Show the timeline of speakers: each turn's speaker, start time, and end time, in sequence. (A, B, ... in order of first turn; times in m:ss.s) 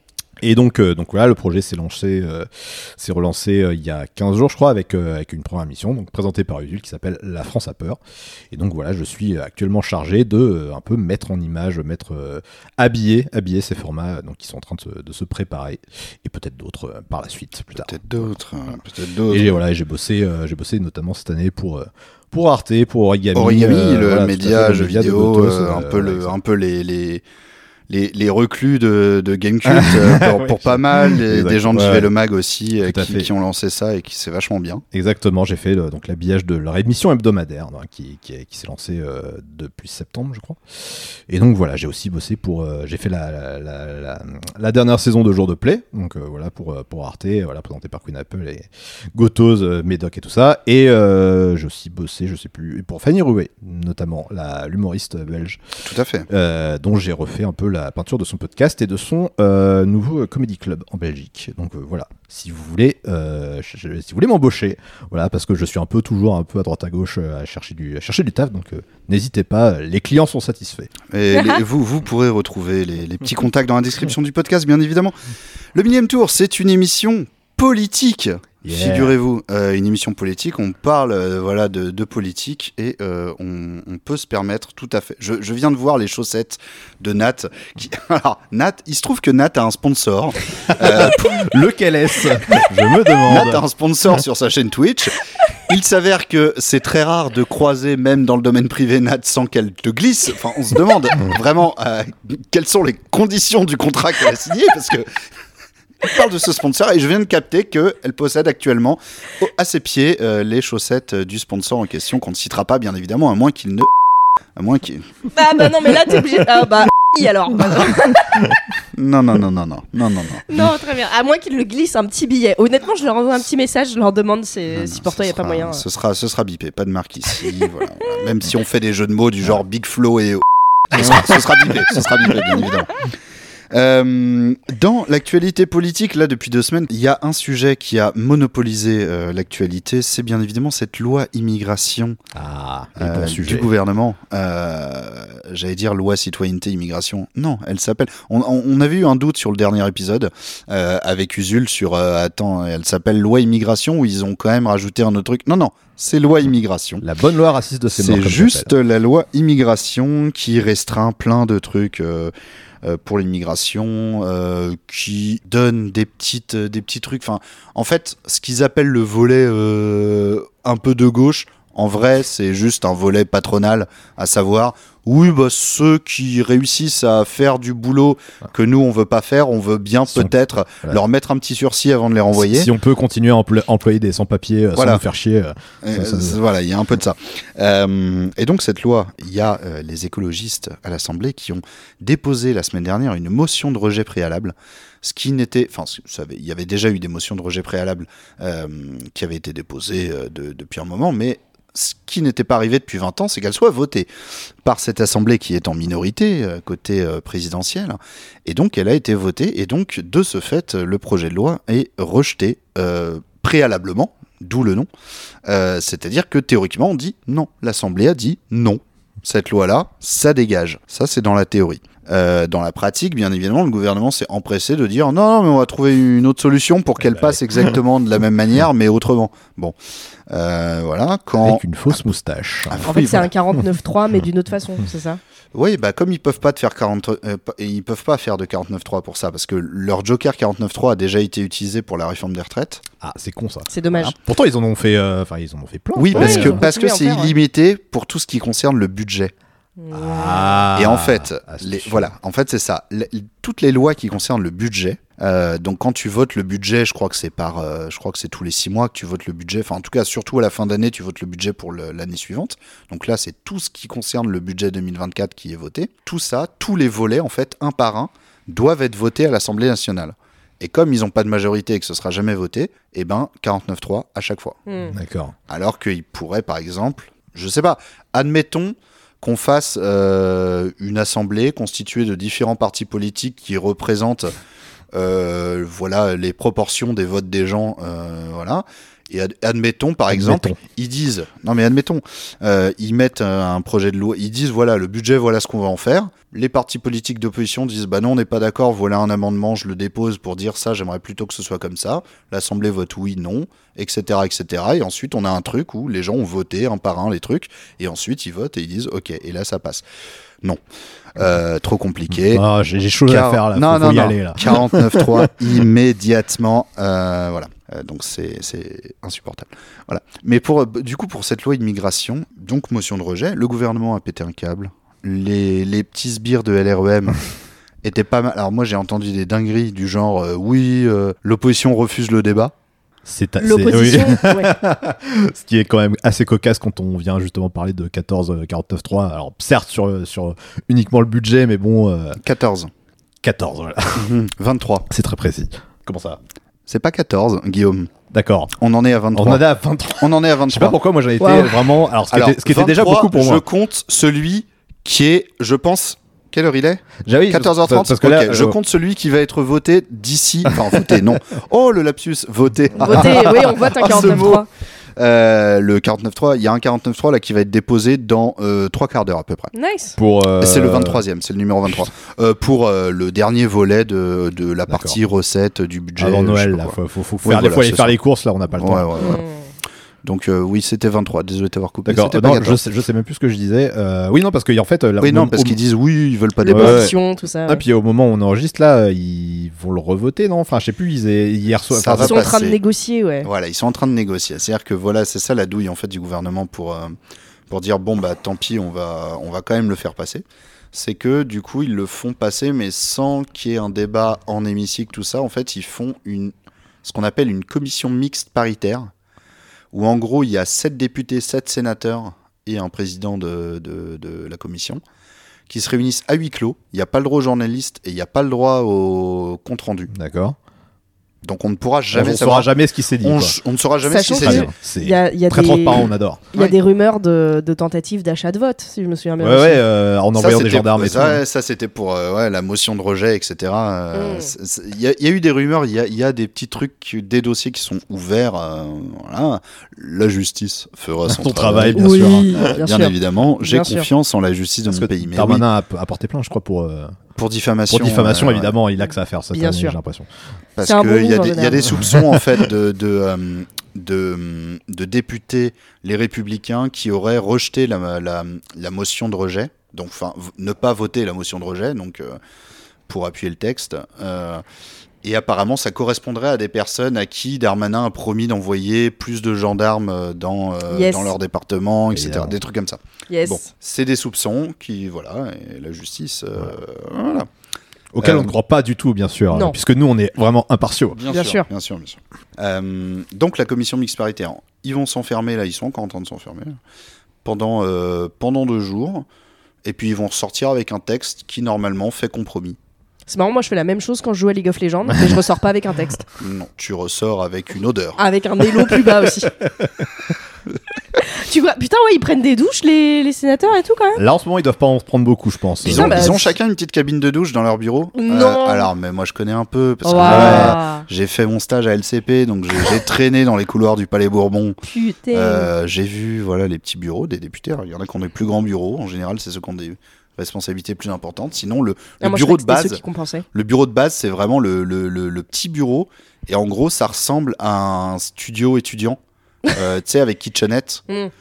0:00.4-0:08.0 A
0:08.5-0:18.0 A
0:17.7-0:19.6 B
0:19.3-0:26.3 A
0:23.3-0:27.2 B
0:27.9-0:34.8 B
0:29.7-0:32.1 A
0:32.8-0:33.3 A
0:34.9-0:40.6 A
0:41.3-0:55.6 A
0:55.8-0:56.3 B
0:56.3-1:10.9 A
1:11.1-1:15.2 B
1:15.7-1:31.5 B
1:18.6-1:19.1 A
1:30.7-1:33.6 A
1:33.2-1:45.2 B
1:46.0-1:53.9 B
1:54.6-1:55.2 B
1:55.3-1:58.3 C
1:58.9-2:00.4 B
2:00.5-2:05.8 C
2:04.7-2:13.2 B
2:11.0-2:11.2 A
2:13.7-2:22.2 B
2:22.4-2:23.7 A
2:23.0-2:37.0 B
2:37.0-2:38.7 A
2:37.9-3:02.7 B
3:02.4-3:06.4 A
3:04.8-3:05.0 B
3:05.8-3:24.1 B
3:24.6-3:34.9 B
3:35.5-3:49.8 B
3:47.1-3:47.7 A
3:50.3-3:52.0 B
3:51.4-3:53.2 A
3:52.7-3:53.3 B
3:52.8-3:55.2 C
3:55.5-4:02.8 B
4:03.0-4:06.6 A
4:03.7-4:04.1 C
4:06.0-4:09.3 B
4:06.1-4:07.3 C
4:09.8-4:10.6 C
4:09.9-4:12.1 A
4:10.7-4:34.6 B
4:34.7-4:34.9 C
4:34.9-4:35.4 A
4:35.5-4:44.3 B
4:44.9-5:09.8 B
4:50.1-4:50.6 A
5:11.2-5:12.4 B
5:12.2-5:15.3 A
5:13.1-5:27.2 B
5:27.8-5:32.5 B
5:33.1-5:42.2 A
5:33.4-5:34.6 C
5:42.2-5:42.7 B
5:43.2-5:44.1 A
5:44.0-5:44.9 B
5:44.9-5:46.2 A
5:46.7-5:47.9 B
5:48.1-5:48.5 A
5:48.6-5:49.4 B
5:49.1-5:53.4 A
5:50.0-5:51.4 B
5:52.1-6:04.4 B
5:57.1-5:58.6 A
6:02.8-6:04.5 C
6:05.0-6:09.5 B
6:09.5-6:10.0 C
6:10.0-6:11.0 A
6:10.4-6:18.0 B
6:14.7-6:15.0 A
6:16.0-6:18.9 A
6:18.5-6:19.2 B
6:19.0-6:19.4 C
6:20.0-6:22.6 B
6:21.9-6:25.6 A
6:25.0-6:26.9 B
6:26.4-6:27.6 C
6:26.5-6:27.0 A
6:27.5-6:32.3 A
6:31.7-6:32.6 B
6:32.0-6:33.3 C
6:33.2-6:37.0 B
6:37.5-6:48.9 B
6:49.7-6:54.8 B
6:55.5-6:59.9 B
6:59.9-7:00.4 A
7:01.2-7:02.5 B
7:01.9-7:03.4 A
7:03.0-7:04.5 B
7:03.9-7:09.6 C
7:04.2-7:06.2 A
7:09.2-7:11.2 A
7:10.2-7:25.5 B
7:13.9-7:14.3 C
7:21.1-7:22.6 A
7:21.8-7:23.9 C
7:24.7-7:27.0 A
7:27.2-7:28.6 B
7:27.7-7:30.1 A
7:29.3-7:29.8 C
7:30.6-7:42.2 B
7:30.6-7:31.8 C
7:42.9-7:44.4 B
7:45.0-7:57.3 B
7:50.7-7:51.1 C
7:51.9-7:52.4 A
7:53.1-7:53.5 C
7:57.9-8:01.0 A
7:58.0-7:58.3 B
8:00.9-8:06.6 B
8:01.1-8:01.5 C
8:07.2-8:09.1 B
8:09.6-8:12.6 B
8:13.1-8:16.0 C
8:16.2-8:18.0 B
8:18.0-8:19.3 C
8:21.0-8:24.0 C
8:24.0-8:26.1 A
8:25.6-8:34.6 B
8:25.7-8:26.3 C
8:27.9-8:28.7 C
8:29.8-8:30.8 C
8:30.0-8:30.6 A
8:34.6-8:35.5 C
8:35.1-8:42.8 B
8:42.0-8:43.2 C
8:43.3-8:50.8 B